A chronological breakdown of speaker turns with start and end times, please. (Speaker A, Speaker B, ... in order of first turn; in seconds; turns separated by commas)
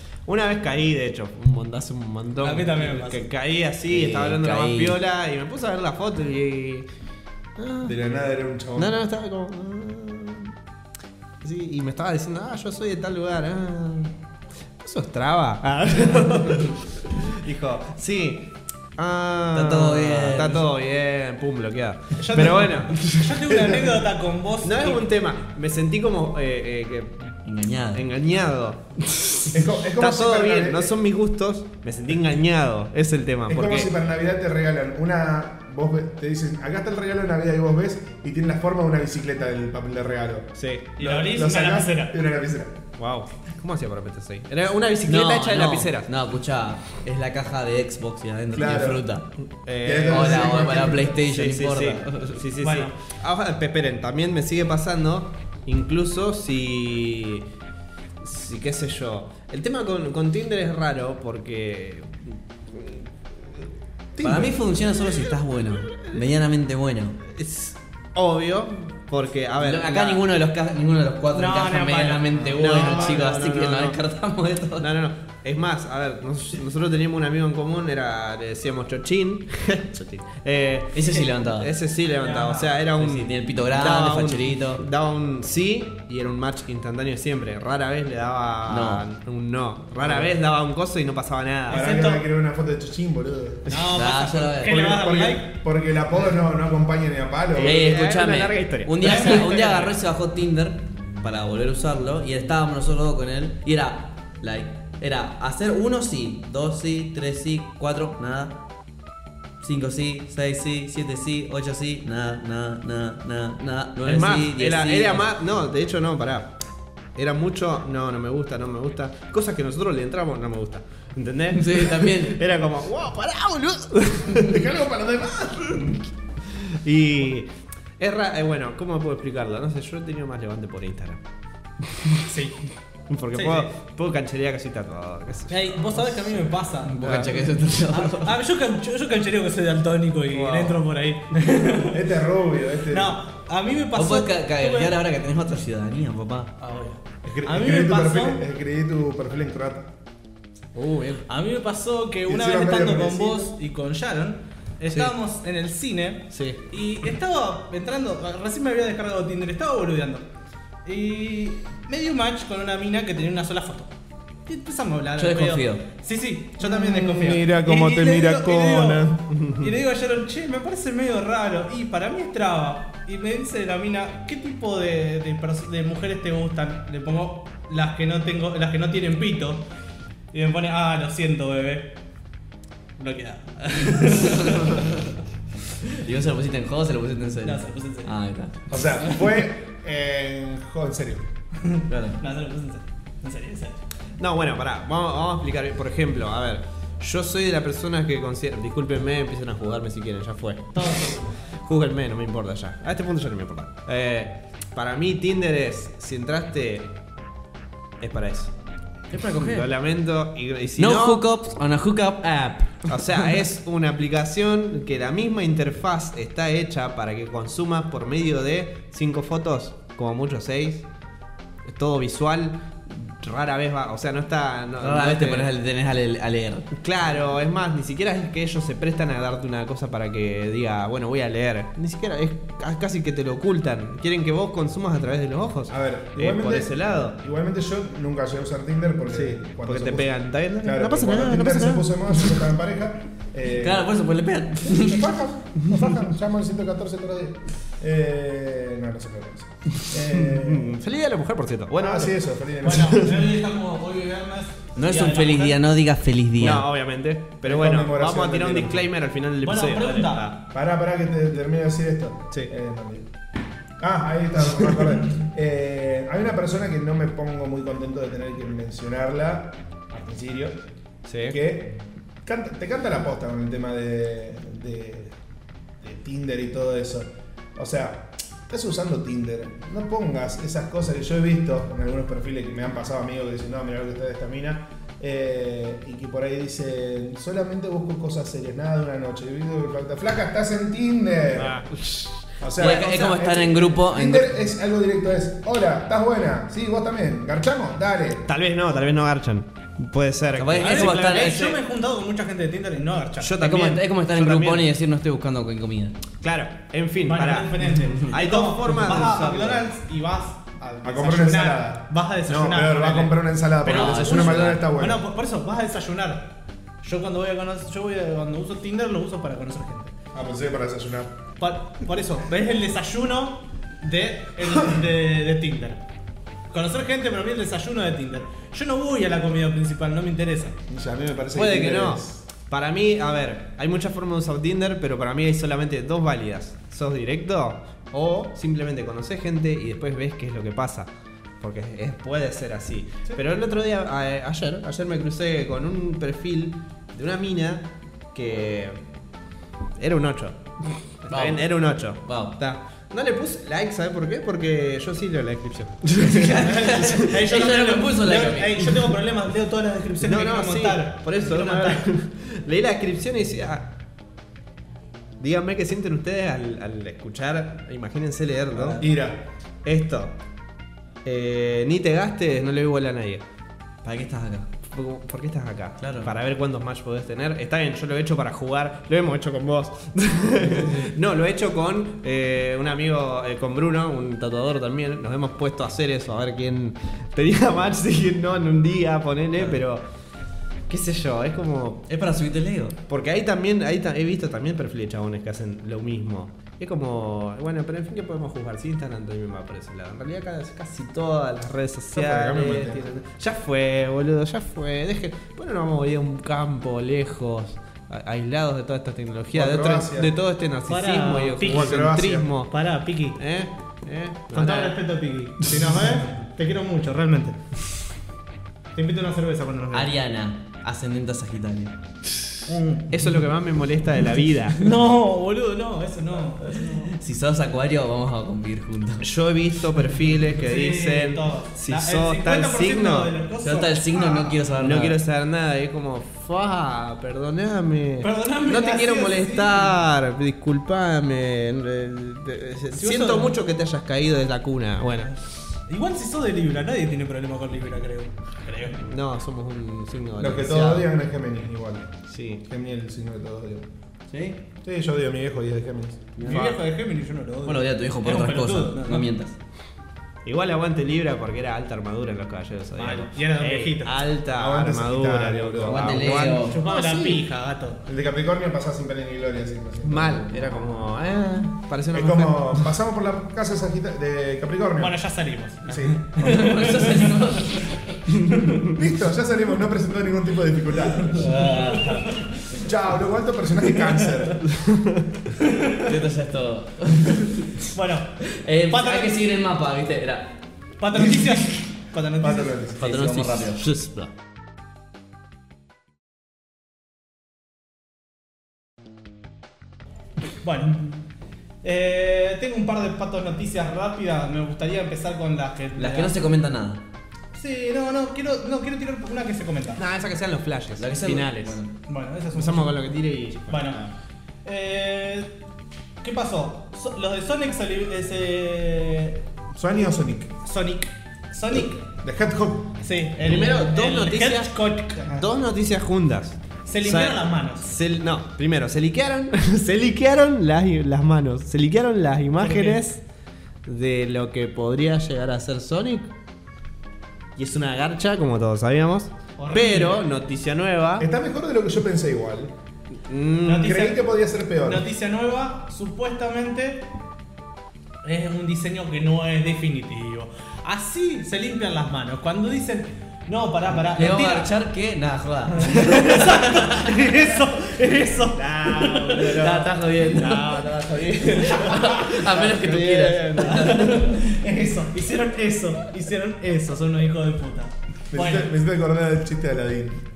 Speaker A: 0.2-6.9, Speaker B: 2.4-3.2, Speaker C: 3.9-5.0, Speaker A: 7.6-8.0, Speaker D: 7.8-9.0, Speaker A: 8.8-10.5, Speaker A: 11.4-14.1, Speaker A: 14.8-23.6, Speaker C: 19.5-20.6, Speaker B: 22.2-25.0, Speaker D: 23.5-24.0, Speaker A: 24.6-27.3, Speaker C: 27.4-28.0, Speaker A: 27.9-33.9, Speaker D: 29.5-30.9, Speaker D: 33.5-42.8, Speaker A: 40.5-40.9, Speaker B: 41.0-42.1, Speaker A: 43.0-46.1, Speaker C: 45.1-49.2, Speaker D: 48.5-49.0, Speaker A: 49.6-57.4, Speaker D: 49.8-51.2, Speaker C: 50.1-52.4, Speaker B: 52.6-52.9, Speaker A: 58.2-63.1, Speaker A: 64.2-66.2, Speaker C: 64.2-67.2, Speaker A: 67.2-70.2, Speaker C: 69.6-74.9, Speaker B: 71.3-73.2, Speaker D: 72.3-72.8, Speaker A: 72.6-74.0, Speaker A: 74.8-91.8, Speaker C: 80.9-81.7, Speaker B: 82.2-82.7, Speaker C: 83.0-84.8, Speaker C: 88.7-89.0, Speaker D: 90.0-90.3, Speaker D: 91.7-93.8, Speaker B: 91.7-92.2, Speaker B: 93.7-95.5, Speaker C: 93.8-94.8, Speaker D: 94.6-97.8, Speaker A: 97.5-99.4, Speaker C: 97.6-108.6, Speaker B: 99.0-100.0, Speaker C: 109.6-115.3, Speaker A: 114.0-116.5, Speaker A: 117.2-124.7, Speaker C: 121.5-122.4, Speaker D: 124.3-126.0, Speaker A: 126.5-131.2, Speaker A: 131.9-132.2, Speaker B: 132.2-132.6, Speaker A: 133.1-136.5, Speaker B: 133.3-133.7, Speaker B: 135.5-137.0, Speaker C: 136.8-138.3, Speaker A: 137.0-137.5, Speaker B: 137.9-142.1, Speaker A: 140.3-140.8, Speaker D: 141.8-143.2, Speaker B: 142.9-144.9, Speaker C: 143.9-146.5, Speaker B: 146.6-148.4, Speaker D: 147.2-149.9, Speaker A: 150.7-151.2, Speaker B: 151.3-160.2, Speaker D: 152.3-153.5, Speaker A: 156.3-156.6, Speaker B: 160.8-163.9, Speaker B: 164.4-179.6, Speaker C: 165.2-165.8, Speaker D: 166.6-169.2, Speaker A: 169.3-169.8, Speaker B: 180.3-181.9, Speaker B: 183.0-185.0, Speaker C: 184.5-184.8, Speaker C: 185.8-189.2, Speaker B: 187.4-188.1, Speaker D: 188.7-191.3, Speaker B: 191.7-193.8, Speaker C: 191.9-192.2, Speaker A: 194.2-206.9, Speaker B: 200.7-201.3, Speaker A: 208.0-208.5, Speaker C: 209.1-209.7, Speaker A: 209.3-211.2, Speaker C: 210.8-212.9, Speaker A: 212.8-220.8, Speaker A: 221.6-225.5, Speaker C: 224.8-226.7, Speaker A: 226.7-237.2, Speaker D: 235.7-243.9, Speaker A: 239.1-242.4, Speaker C: 243.5-245.1, Speaker D: 244.6-250.8, Speaker A: 249.9-252.2, Speaker D: 251.8-253.1, Speaker B: 252.6-255.6, Speaker A: 252.7-253.3, Speaker C: 254.8-256.6, Speaker A: 256.4-260.4, Speaker D: 257.4-258.9, Speaker B: 259.4-260.3, Speaker D: 260.5-263.1, Speaker D: 263.8-270.6, Speaker A: 271.1-271.4, Speaker D: 271.3-271.7, Speaker D: 272.2-275.1, Speaker D: 275.8-291.6, Speaker A: 291.4-292.9, Speaker D: 292.4-298.2, Speaker C: 292.6-294.3, Speaker A: 298.2-301.1, Speaker C: 300.4-301.6, Speaker B: 300.6-303.4, Speaker A: 303.2-304.7, Speaker C: 303.4-306.0, Speaker A: 306.2-309.6, Speaker B: 307.0-316.3, Speaker D: 310.8-315.0, Speaker C: 313.6-314.6, Speaker B: 316.8-319.9, Speaker D: 320.1-321.1, Speaker B: 321.4-325.8, Speaker B: 326.5-330.6, Speaker D: 330.7-332.2, Speaker A: 331.3-340.9, Speaker A: 341.4-348.8, Speaker A: 349.8-357.1, Speaker C: 351.1-352.3, Speaker C: 356.0-358.7, Speaker B: 356.1-361.8, Speaker A: 360.0-363.7, Speaker A: 365.2-368.8, Speaker D: 368.8-369.2, Speaker A: 369.6-370.1, Speaker A: 371.0-373.2, Speaker C: 373.8-374.5, Speaker A: 374.7-389.8, Speaker C: 375.8-376.1, Speaker C: 380.4-380.9, Speaker A: 390.7-391.9, Speaker C: 391.9-392.8, Speaker A: 392.9-412.5, Speaker D: 401.9-402.8, Speaker D: 409.3-410.1, Speaker B: 410.7-411.8, Speaker D: 411.4-412.3, Speaker B: 412.5-413.2, Speaker A: 413.1-414.8, Speaker B: 414.3-417.4, Speaker B: 418.7-419.9, Speaker C: 419.7-421.7, Speaker B: 422.4-422.9, Speaker A: 422.9-424.6, Speaker B: 424.6-426.9, Speaker C: 426.8-429.1, Speaker A: 429.0-433.1, Speaker B: 430.4-434.4, Speaker C: 433.4-435.0, Speaker A: 434.6-445.2, Speaker B: 438.0-439.7, Speaker B: 442.7-443.3, Speaker B: 445.7-448.8, Speaker A: 448.8-450.9, Speaker D: 450.2-453.7, Speaker A: 452.1-452.4, Speaker C: 454.1-454.4, Speaker D: 454.6-456.4, Speaker C: 456.2-456.5, Speaker B: 456.2-459.1, Speaker C: 457.4-459.4, Speaker A: 460.2-467.2, Speaker B: 462.8-464.0, Speaker D: 464.3-466.3, Speaker C: 465.6-466.6, Speaker B: 466.4-467.8, Speaker D: 467.9-470.8, Speaker A: 469.8-472.7, Speaker D: 471.9-474.9, Speaker B: 474.8-477.3, Speaker D: 475.6-476.2, Speaker C: 476.2-477.8, Speaker A: 478.3-478.7, Speaker D: 478.6-481.4, Speaker C: 481.1-482.1, Speaker B: 481.4-482.0, Speaker D: 482.6-484.5, Speaker A: 484.4-485.1, Speaker B: 485.4-485.9, Speaker C: 485.8-487.6, Speaker B: 487.7-489.2, Speaker C: 488.2-490.4, Speaker B: 490.8-492.6, Speaker D: 492.2-493.3, Speaker C: 492.8-493.7, Speaker A: 493.0-494.1, Speaker B: 500.4-501.0, Speaker B: 501.6-506.2, Speaker C: 505.7-506.8, Speaker B: 507.3-509.8, Speaker A: 509.8-511.6, Speaker C: 510.8-511.7, Speaker B: 511.9-512.8, Speaker A: 512.3-513.9, Speaker B: 513.5-513.9, Speaker B: 514.4-515.3, Speaker B: 516.0-519.2, Speaker D: 519.5-520.3, Speaker B: 520.4-521.8, Speaker D: 522.0-522.7, Speaker B: 522.8-525.3, Speaker A: 523.2-524.5, Speaker A: 525.1-533.0, Speaker B: 526.6-527.7, Speaker B: 532.4-532.8, Speaker A: 533.6-536.1, Speaker A: 537.4-541.1, Speaker B: 539.4-540.0, Speaker D: 541.0-542.5, Speaker A: 543.0-543.7, Speaker B: 543.5-544.0, Speaker D: 543.5-544.9, Speaker B: 544.6-546.9, Speaker B: 548.0-554.5, Speaker C: 553.9-556.6, Speaker B: 555.6-559.6, Speaker A: 558.3-564.1, Speaker C: 559.2-564.1, Speaker B: 563.4-568.5, Speaker D: 568.1-570.0